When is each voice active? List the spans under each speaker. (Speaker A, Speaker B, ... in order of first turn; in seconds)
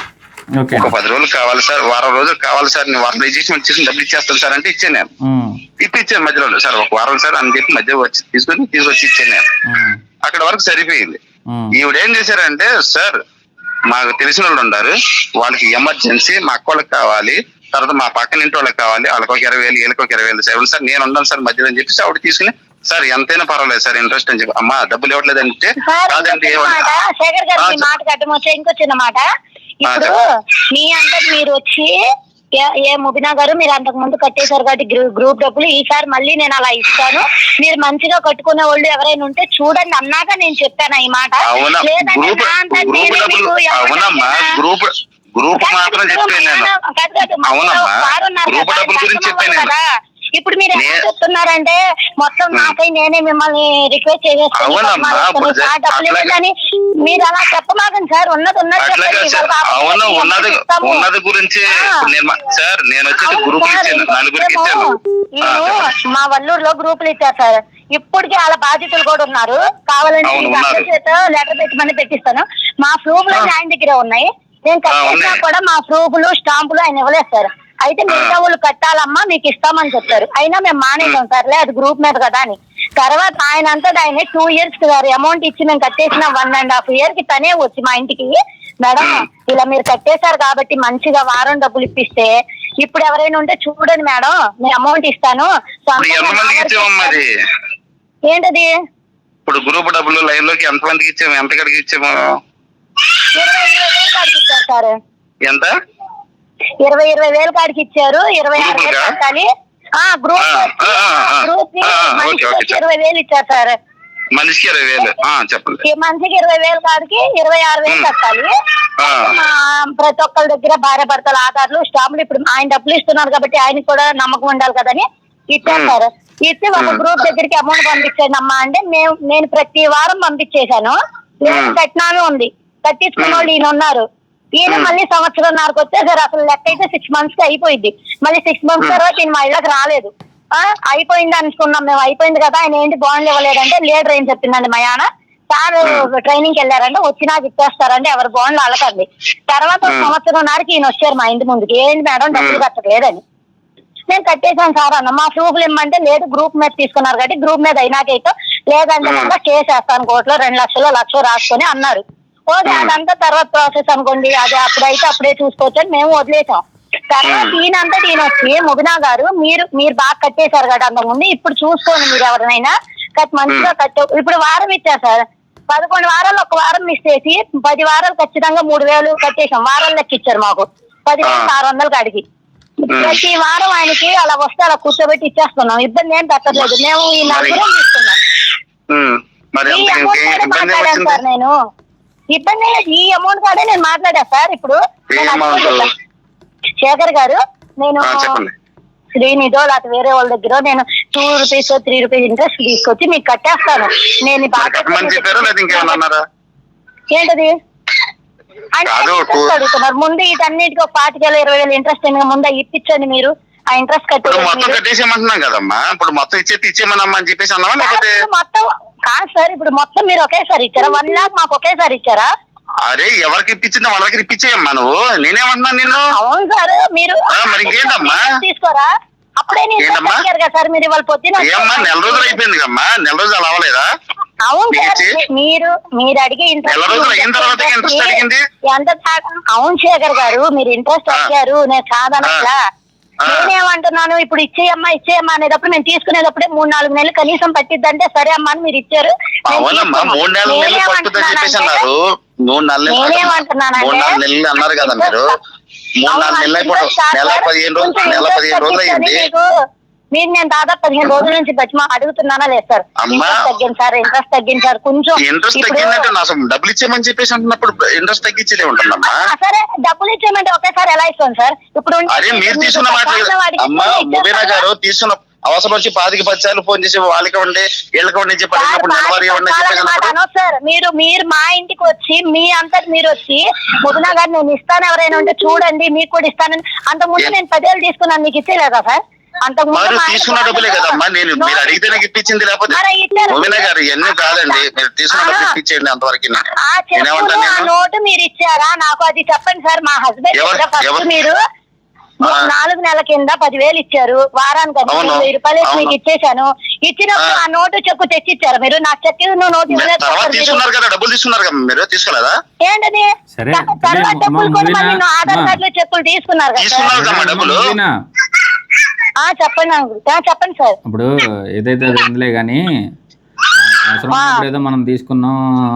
Speaker A: 0.6-0.9, 5.2-5.6, 9.7-10.0, 11.5-11.8, 313.4-315.6, 316.9-317.9, 320.9-322.6, 323.5-325.4
Speaker B: 0.7-5.1, 5.8-9.4, 10.2-11.2, 11.7-13.2, 13.9-27.0, 27.6-27.8, 29.9-30.2, 41.4-46.7, 47.5-49.7, 50.8-51.0, 54.6-56.3, 58.8-64.9, 65.4-65.8, 70.2-70.9, 74.9-75.4, 96.0-97.3, 99.5-102.4, 105.4-105.7, 108.6-109.1, 110.4-112.8, 114.3-115.8, 119.0-119.3, 125.7-126.0, 126.8-127.0, 131.5-131.8, 133.2-133.5, 149.8-150.1, 152.3-152.6, 159.0-159.3, 162.7-162.9, 167.2-167.5, 182.9-183.2, 187.3-187.6, 188.9-191.2, 195.1-195.9, 198.0-198.5, 204.6-206.2, 208.9-209.6, 214.2-218.2, 222.9-226.1, 227.3-228.3, 229.8-230.2, 231.4-233.9, 234.7-235.2, 236.7-238.4, 243.2-243.5, 249.5-255.3, 256.0-259.2, 263.0-263.4, 265.2-269.2, 272.1-280.1, 289.7-292.8, 293.3-296.4, 297.0-297.7, 300.3-301.1, 304.9-305.9, 309.7-312.4, 316.6-317.7
Speaker C: 25.8-29.2, 29.8-30.2, 30.7-31.9, 32.6-44.6, 45.5-49.8, 50.4-61.1, 61.8-62.0, 63.2-97.2, 98.3-98.7, 103.3-104.9, 106.8-109.5, 110.0-113.8, 115.9-134.1, 134.6-153.2, 154.1-182.2, 182.8-188.2, 189.7-191.5, 192.3-195.9, 196.8-198.4, 199.1-206.0, 207.1-207.5, 208.8-214.8, 217.8-222.3, 225.9-228.9, 229.4-232.4, 234.4-242.6, 243.3-251.8, 252.9-255.2, 256.1-259.5, 260.1-266.1, 269.0-274.6, 278.6-292.0, 292.7-295.6, 296.5-301.4, 302.2-310.6, 312.6-316.9, 319.2-320.8, 324.1-324.4